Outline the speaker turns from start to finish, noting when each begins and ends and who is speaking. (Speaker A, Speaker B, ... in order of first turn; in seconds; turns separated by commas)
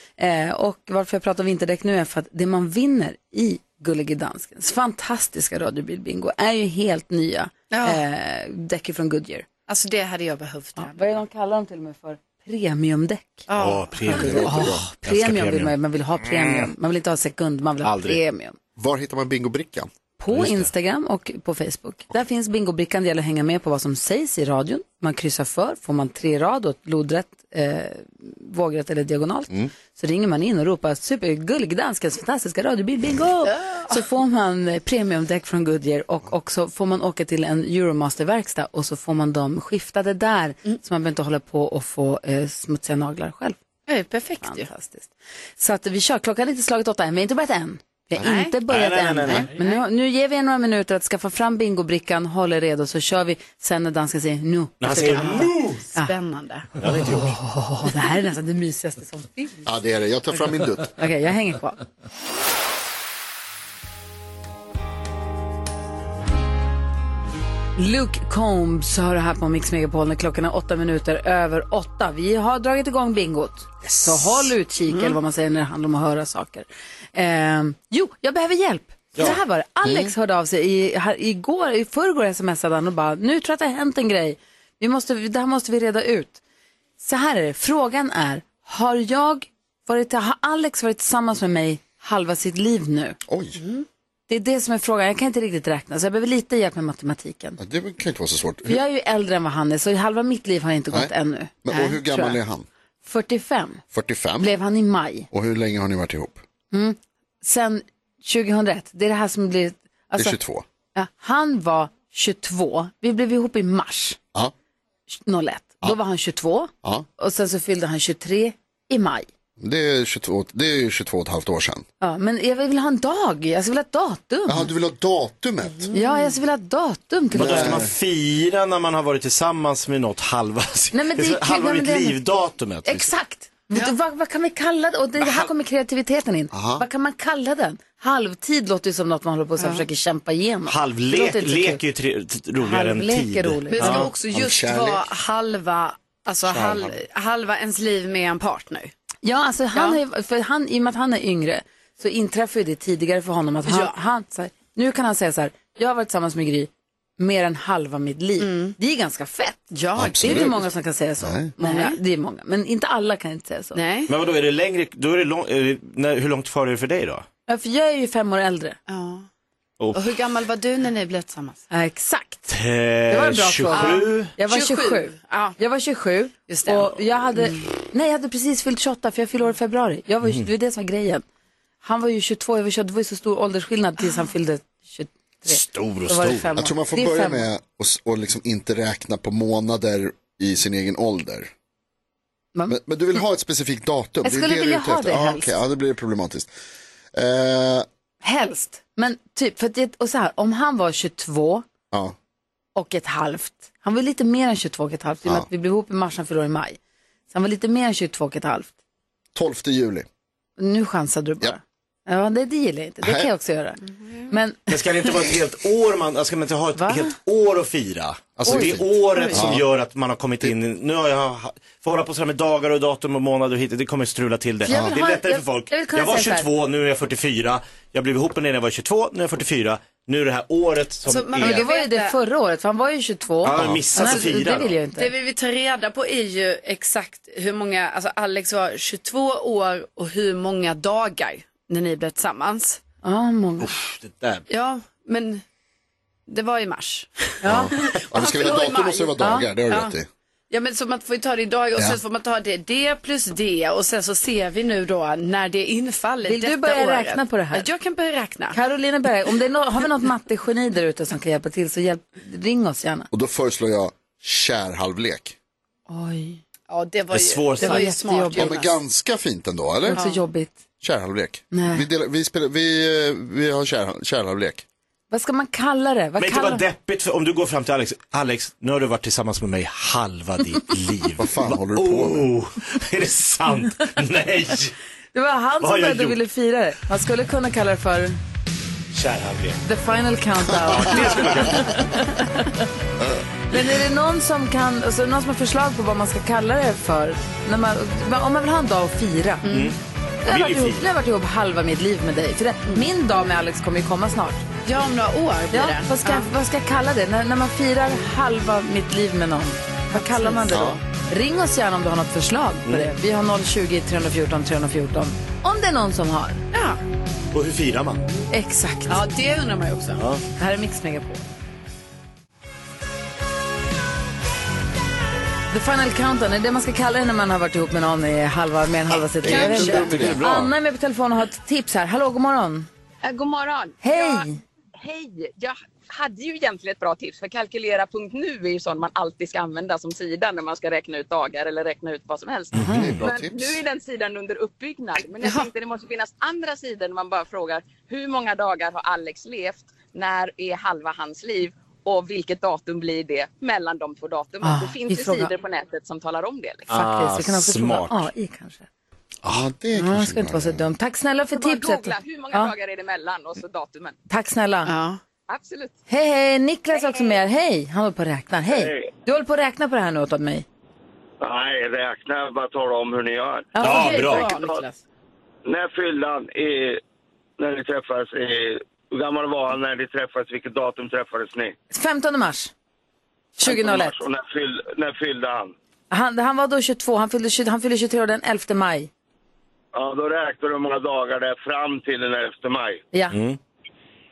Speaker A: 0.2-9.5, Speaker B: 7.7-8.0, Speaker B: 9.7-11.1, Speaker A: 10.8-13.5, Speaker B: 13.5-14.4, Speaker C: 13.5-15.7, Speaker A: 14.1-18.6, Speaker D: 14.1-14.8, Speaker C: 16.3-16.7, Speaker C: 17.8-18.2, Speaker D: 18.8-19.9, Speaker A: 20.2-43.6, Speaker C: 20.3-20.7, Speaker B: 33.5-34.0, Speaker B: 43.9-44.7, Speaker A: 44.4-56.1, Speaker B: 48.2-48.6, Speaker C: 48.7-49.5, Speaker B: 49.3-49.8, Speaker C: 54.8-55.8, Speaker B: 55.1-56.8, Speaker C: 56.8-57.4, Speaker A: 57.1-59.7, Speaker D: 59.7-60.9, Speaker A: 61.0-61.8, Speaker A: 67.8-86.4, Speaker C: 73.8-74.5, Speaker B: 74.9-75.2, Speaker D: 79.8-80.1, Speaker A: 87.0-93.2, Speaker D: 93.3-93.6, Speaker B: 93.6-93.9, Speaker A: 94.3-97.6, Speaker D: 97.6-98.8, Speaker A: 98.7-102.4, Speaker D: 101.6-102.7, Speaker A: 103.0-103.8, Speaker D: 103.9-104.5, Speaker A: 104.4-105.3, Speaker D: 105.3-106.4, Speaker A: 106.7-110.4, Speaker D: 110.2-110.7, Speaker A: 111.0-114.2, Speaker A: 115.1-119.3, Speaker D: 119.6-121.9, Speaker A: 122.0-124.7, Speaker D: 124.5-125.9, Speaker B: 125.7-126.3, Speaker A: 125.9-127.8, Speaker D: 127.3-127.9, Speaker C: 127.3-133.1, Speaker A: 130.9-132.2, Speaker A: 132.8-141.8, Speaker C: 135.2-135.5, Speaker D: 136.5-136.8, Speaker B: 139.6-139.8, Speaker C: 140.7-144.1, Speaker A: 142.6-144.1, Speaker B: 143.7-148.9, Speaker D: 144.3-145.1, Speaker D: 146.5-146.9, Speaker A: 149.2-163.8, Speaker B: 149.7-150.0, Speaker B: 153.7-153.9, Speaker B: 158.4-158.8, Speaker B: 159.7-160.7, Speaker D: 160.0-160.5, Speaker D: 161.2-161.5, Speaker B: 161.6-162.0, Speaker B: 163.8-164.1, Speaker C: 164.1-167.2, Speaker A: 167.5-168.8, Speaker B: 168.9-169.3, Speaker C: 169.8-170.1, Speaker B: 169.9-171.6, Speaker A: 171.7-172.5, Speaker C: 172.5-174.3, Speaker A: 173.1-181.2, Speaker B: 173.7-175.6, Speaker B: 176.5-177.7, Speaker C: 180.2-180.5, Speaker A: 181.8-187.4, Speaker C: 185.5-186.6, Speaker D: 186.6-191.5, Speaker D: 192.7-196.5, Speaker A: 194.2-195.6, Speaker D: 197.1-197.9, Speaker A: 198.2-201.7, Speaker A: 202.8-206.8, Speaker A: 207.3-208.7, Speaker D: 209.3-210.1, Speaker A: 210.6-214.8, Speaker D: 213.0-213.3, Speaker C: 214.7-231.7, Speaker A: 216.8-217.1, Speaker D: 218.4-219.7, Speaker A: 218.5-219.3, Speaker B: 219.2-219.4, Speaker A: 224.6-226.5, Speaker D: 224.7-224.9, Speaker B: 231.1-232.2, Speaker A: 231.4-235.1, Speaker C: 233.4-234.8, Speaker B: 235.0-242.8, Speaker A: 243.0-243.7, Speaker C: 243.6-244.4, Speaker B: 244.5-245.4, Speaker B: 246.3-249.9, Speaker A: 247.4-247.7, Speaker D: 247.5-250.1, Speaker A: 249.2-249.5, Speaker B: 250.5-258.6, Speaker A: 256.3-257.7, Speaker A: 258.5-263.1, Speaker D: 263.1-265.4, Speaker A: 265.9-266.4, Speaker B: 266.7-268.8, Speaker C: 267.1-267.9, Speaker A: 267.6-268.6, Speaker D: 268.4-270.0, Speaker A: 269.9-270.6, Speaker D: 270.8-274.6, Speaker A: 271.5-271.9, Speaker A: 275.1-276.6, Speaker C: 276.2-284.7, Speaker D: 281.2-282.3, Speaker A: 285.1-288.2, Speaker C: 285.6-286.2, Speaker C: 288.9-289.6, Speaker A: 289.6-292.5, Speaker C: 290.6-291.9, Speaker A: 293.5-299.5, Speaker B: 299.4-299.7, Speaker C: 299.5-300.9, Speaker A: 300.2-304.4, Speaker B: 304.7-306.3, Speaker A: 305.5-316.4, Speaker B: 309.9-310.6, Speaker D: 310.5-310.8, Speaker C: 312.7-312.9, Speaker B: 316.5-316.8, Speaker C: 317.3-318.0, Speaker A: 318.3-319.0, Speaker B: 318.9-320.0, Speaker C: 320.0-320.2, Speaker A: 320.4-321.2, Speaker A: 325.5-332.7, Speaker D: 329.2-330.3, Speaker C: 329.2-330.5, Speaker E: 333.0-334.3, Speaker A: 333.8-334.4, Speaker E: 334.8-356.7, Speaker C: 342.5-343.1, Speaker A: 342.6-342.9, Speaker D: 342.7-343.6, Speaker B: 345.2-345.5, Speaker A: 354.4-355.3, Speaker C: 356.7-358.1, Speaker A: 356.7-358.7, Speaker C: 359.2-359.5, Speaker D: 359.3-360.7, Speaker A: 359.8-362.5, Speaker E: 361.3-364.0, Speaker A: 364.1-364.7, Speaker B: 364.7-365.0, Speaker E: 365.3-365.8, Speaker A: 365.9-370.4, Speaker F: 368.5-368.9, Speaker F: 371.2-373.6, Speaker A: 373.6-374.0, Speaker C: 373.6-374.3, Speaker B: 373.6-374.8, Speaker F: 374.3-374.6, Speaker F: 375.5-376.8, Speaker F: 377.4-381.5, Speaker A: 381.7-382.5, Speaker A: 383.4-384.0, Speaker F: 383.4-385.5, Speaker A: 385.9-388.9, Speaker F: 389.7-392.8, Speaker A: 392.9-393.2, Speaker C: 393.1-393.4